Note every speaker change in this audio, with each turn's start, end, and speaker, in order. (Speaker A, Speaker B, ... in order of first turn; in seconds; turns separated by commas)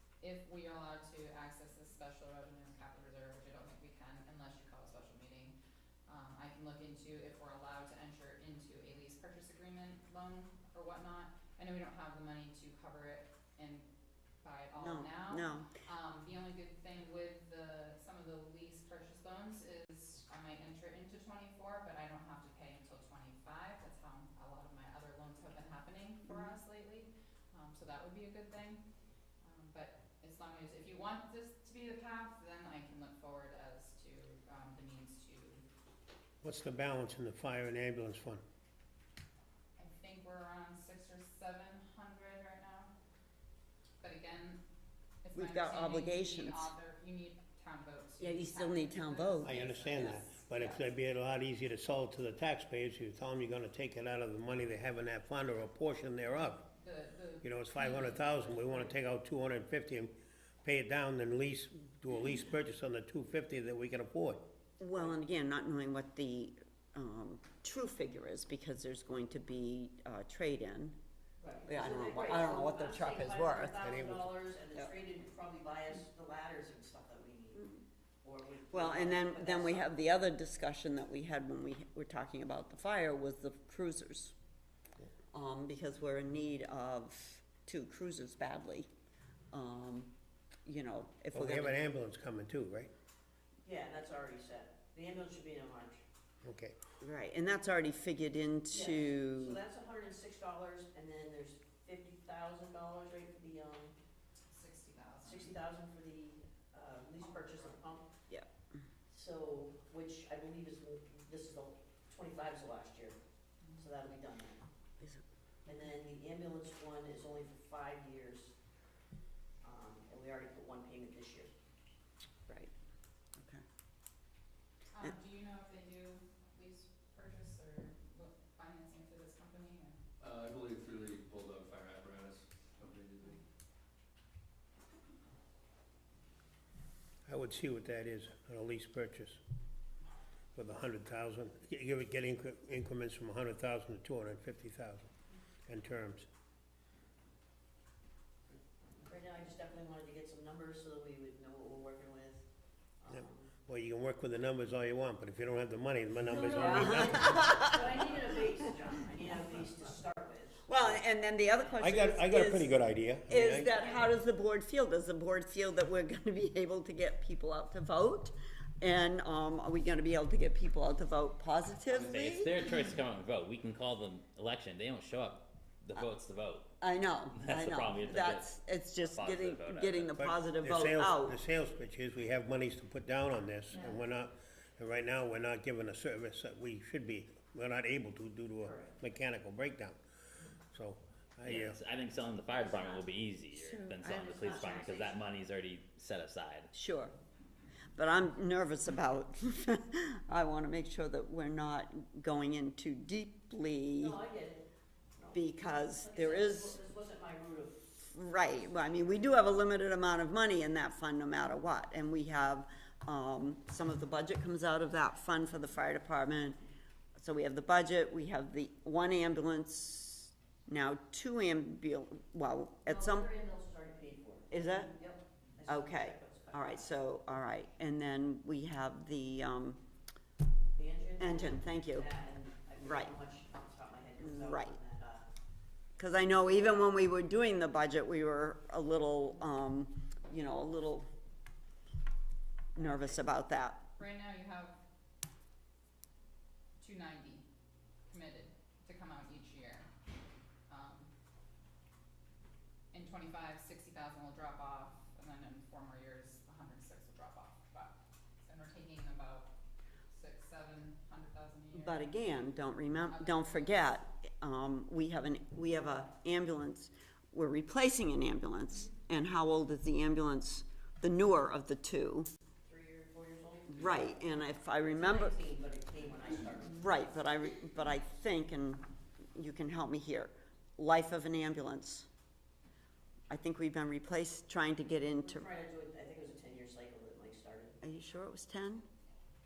Speaker A: 0.2-13.9, Speaker A: 14.4-28.8, Speaker B: 14.8-15.7, Speaker A: 29.4-35.7, Speaker C: 36.4-38.4, Speaker A: 39.8-42.9, Speaker A: 44.0-44.6, Speaker A: 45.2-50.4, Speaker B: 45.4-46.7, Speaker B: 48.2-50.8, Speaker C: 49.5-56.6, Speaker A: 56.4-58.9, Speaker C: 57.4-64.4, Speaker B: 64.8-71.0, Speaker D: 71.4-77.7, Speaker B: 71.7-73.8, Speaker C: 73.8-74.3, Speaker B: 77.6-77.8, Speaker D: 78.2-79.9, Speaker B: 78.7-84.3, Speaker B: 85.3-88.9, Speaker B: 89.5-90.1, Speaker B: 90.7-91.8, Speaker C: 91.3-92.9, Speaker D: 93.6-96.0, Speaker C: 96.4-96.8, Speaker B: 97.0-99.6, Speaker D: 98.7-104.0, Speaker A: 104.5-105.5, Speaker D: 105.2-108.1, Speaker D: 109.1-113.2, Speaker A: 113.6-113.9, Speaker D: 113.8-114.7, Speaker D: 115.7-118.5, Speaker D: 119.6-121.5, Speaker B: 123.4-123.6, Speaker A: 124.9-130.0, Speaker E: 130.2-133.3, Speaker C: 137.3-139.4, Speaker C: 140.6-145.1, Speaker C: 145.7-146.3, Speaker D: 149.0-152.4, Speaker D: 153.0-153.6, Speaker C: 153.1-157.6, Speaker D: 156.2-160.9, Speaker B: 156.6-157.8, Speaker B: 160.7-172.5, Speaker C: 161.8-163.8, Speaker D: 163.8-164.1, Speaker F: 171.9-176.7, Speaker B: 176.8-181.4, Speaker F: 177.3-178.5, Speaker F: 179.0-180.1, Speaker C: 180.2-190.0, Speaker D: 188.6-189.0, Speaker C: 190.7-191.8, Speaker F: 191.4-196.7, Speaker D: 192.5-193.0, Speaker B: 193.5-193.9, Speaker D: 193.9-195.2, Speaker B: 196.7-197.1, Speaker B: 197.9-204.2, Speaker D: 204.0-205.4, Speaker B: 205.3-206.8, Speaker D: 206.0-207.8, Speaker B: 208.1-216.6, Speaker D: 208.7-209.4, Speaker B: 217.2-223.3, Speaker D: 222.9-226.8, Speaker B: 224.5-225.0, Speaker B: 225.7-229.8, Speaker D: 230.7-235.3, Speaker B: 231.2-232.1, Speaker B: 232.8-233.1, Speaker B: 234.2-234.8, Speaker B: 236.0-241.1, Speaker D: 236.4-236.8, Speaker B: 242.8-243.9, Speaker A: 244.0-244.8, Speaker A: 246.8-247.4, Speaker A: 248.1-249.9, Speaker A: 250.7-251.1, Speaker A: 252.9-259.5, Speaker A: 260.1-262.1, Speaker B: 261.7-272.3, Speaker A: 263.1-263.7, Speaker D: 272.6-274.2, Speaker B: 273.7-275.4, Speaker D: 274.8-276.8, Speaker B: 276.6-282.1, Speaker B: 283.3-285.5, Speaker D: 285.2-287.8, Speaker B: 287.8-288.9